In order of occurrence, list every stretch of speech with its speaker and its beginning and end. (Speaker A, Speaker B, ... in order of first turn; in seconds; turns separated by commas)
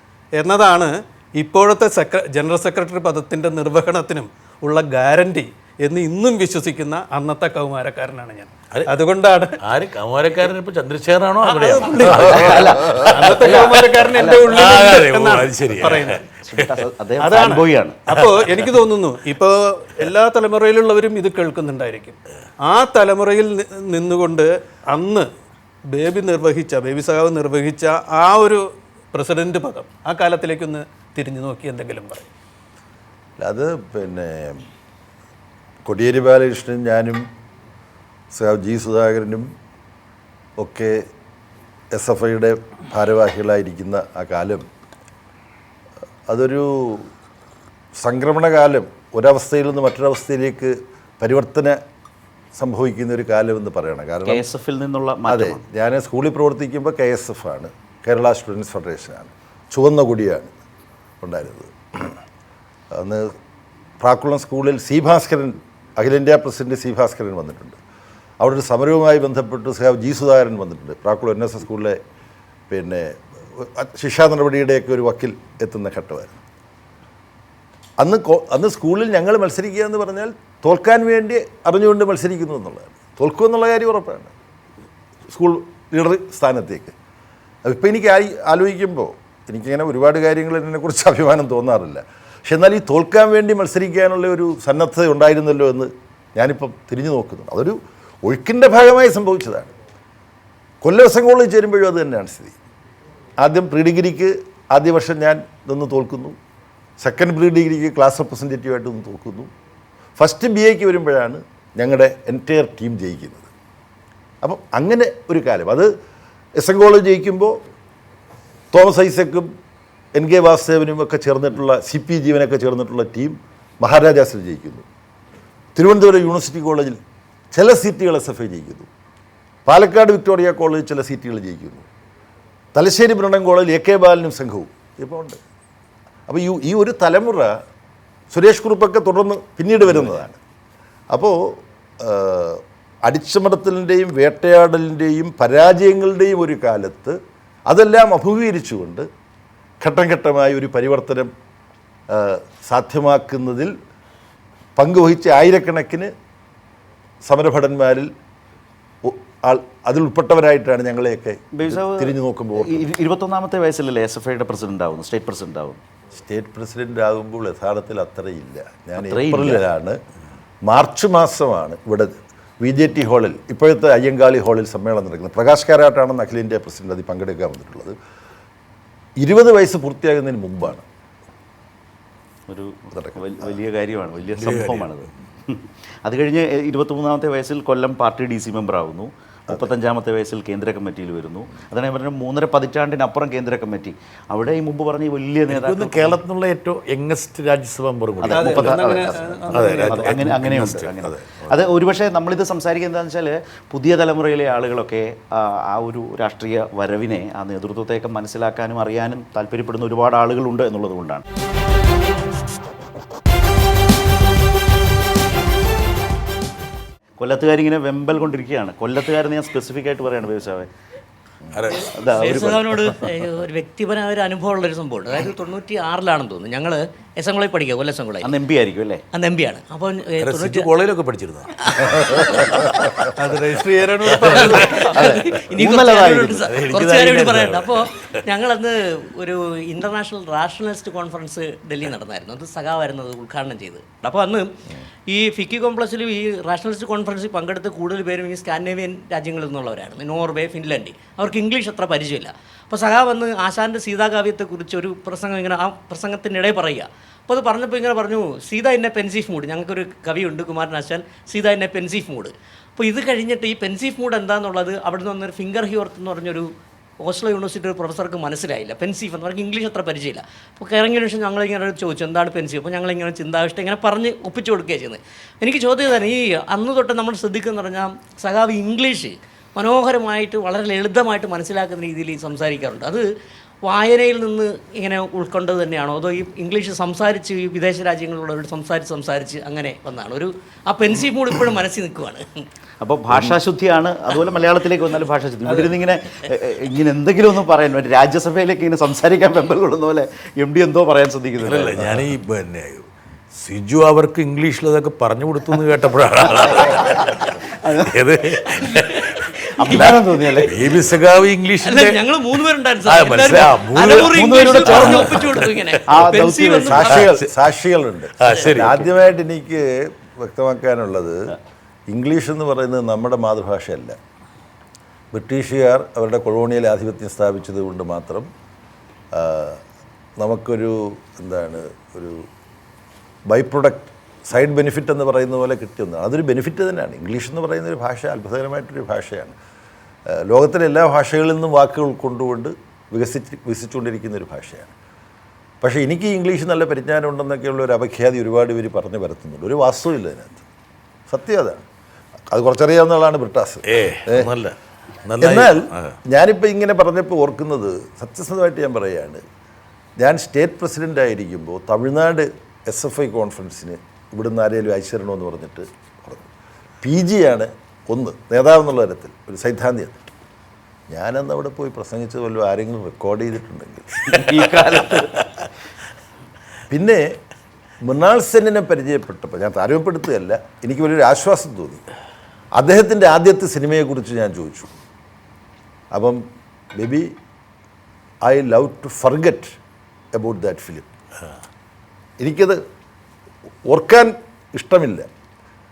Speaker A: 0.4-9.6, Speaker B: 9.6-13.7, Speaker A: 11.4-16.3, Speaker C: 12.2-14.6, Speaker B: 14.4-16.8, Speaker C: 16.5-18.1, Speaker A: 17.2-25.3, Speaker B: 18.2-18.5, Speaker A: 25.9-32.3, Speaker D: 33.4-34.6, Speaker D: 35.9-37.2, Speaker D: 38.3-39.5, Speaker D: 40.6-41.1, Speaker D: 41.9-44.7, Speaker D: 46.3-47.1, Speaker D: 48.0-51.8, Speaker D: 52.6-54.5, Speaker C: 54.2-55.6, Speaker D: 55.3-60.5, Speaker D: 61.2-62.2, Speaker D: 62.9-63.3, Speaker D: 64.0-67.8, Speaker D: 68.4-72.0, Speaker D: 72.7-76.4, Speaker D: 78.0-84.3, Speaker D: 85.3-86.9, Speaker D: 87.7-99.7, Speaker D: 100.8-102.6, Speaker D: 103.4-106.4, Speaker D: 107.0-109.5, Speaker D: 110.2-113.5, Speaker D: 114.4-115.9, Speaker D: 116.6-117.6, Speaker D: 118.7-119.5, Speaker D: 120.2-124.9, Speaker D: 125.8-127.0, Speaker D: 127.5-128.9, Speaker D: 129.7-131.9, Speaker D: 132.7-135.4, Speaker D: 136.3-137.6, Speaker D: 138.3-140.4, Speaker D: 141.1-147.2, Speaker D: 147.7-149.1, Speaker D: 149.8-151.3, Speaker D: 152.1-153.7, Speaker D: 154.8-156.1, Speaker D: 157.2-158.1, Speaker D: 159.0-162.9, Speaker C: 161.5-165.8, Speaker D: 166.1-170.0, Speaker C: 169.0-169.6, Speaker D: 170.7-178.0, Speaker D: 179.2-180.9, Speaker C: 182.5-196.2, Speaker D: 182.9-183.5, Speaker B: 184.4-184.9, Speaker B: 195.5-201.6, Speaker C: 198.2-211.2, Speaker A: 198.3-200.2, Speaker C: 217.2-220.7, Speaker B: 221.5-222.5, Speaker E: 221.7-228.3, Speaker C: 221.9-223.1, Speaker C: 228.2-229.0, Speaker E: 229.1-230.7, Speaker B: 230.2-232.8, Speaker E: 231.7-233.0, Speaker A: 233.1-235.0, Speaker B: 234.1-234.9, Speaker E: 234.2-244.6, Speaker C: 234.9-236.5, Speaker B: 236.5-238.1, Speaker E: 245.1-266.5, Speaker E: 267.0-283.0, Speaker E: 283.6-292.5, Speaker C: 292.8-302.0, Speaker B: 301.4-302.9, Speaker B: 303.4-316.1, Speaker C: 306.2-308.0, Speaker E: 308.6-309.1, Speaker C: 309.6-310.8, Speaker E: 311.6-317.1, Speaker C: 313.9-315.3, Speaker C: 315.9-317.3, Speaker D: 316.6-321.4, Speaker B: 317.0-317.3, Speaker B: 318.2-318.7, Speaker C: 318.5-318.9, Speaker D: 321.9-324.0, Speaker D: 325.1-328.3, Speaker D: 329.1-329.6, Speaker D: 330.2-332.2, Speaker D: 333.3-339.4, Speaker D: 340.1-344.8, Speaker D: 345.6-350.4, Speaker D: 351.1-351.6, Speaker D: 352.3-354.3, Speaker B: 353.6-356.0, Speaker D: 355.2-359.2, Speaker D: 360.0-366.3, Speaker D: 366.8-369.9, Speaker D: 370.9-373.9, Speaker C: 374.1-375.1, Speaker D: 376.7-377.1, Speaker D: 377.8-381.8, Speaker D: 382.6-384.7, Speaker D: 385.9-386.2, Speaker D: 386.8-387.1, Speaker D: 388.2-389.6, Speaker D: 390.1-390.9, Speaker D: 392.2-392.6, Speaker D: 393.7-395.1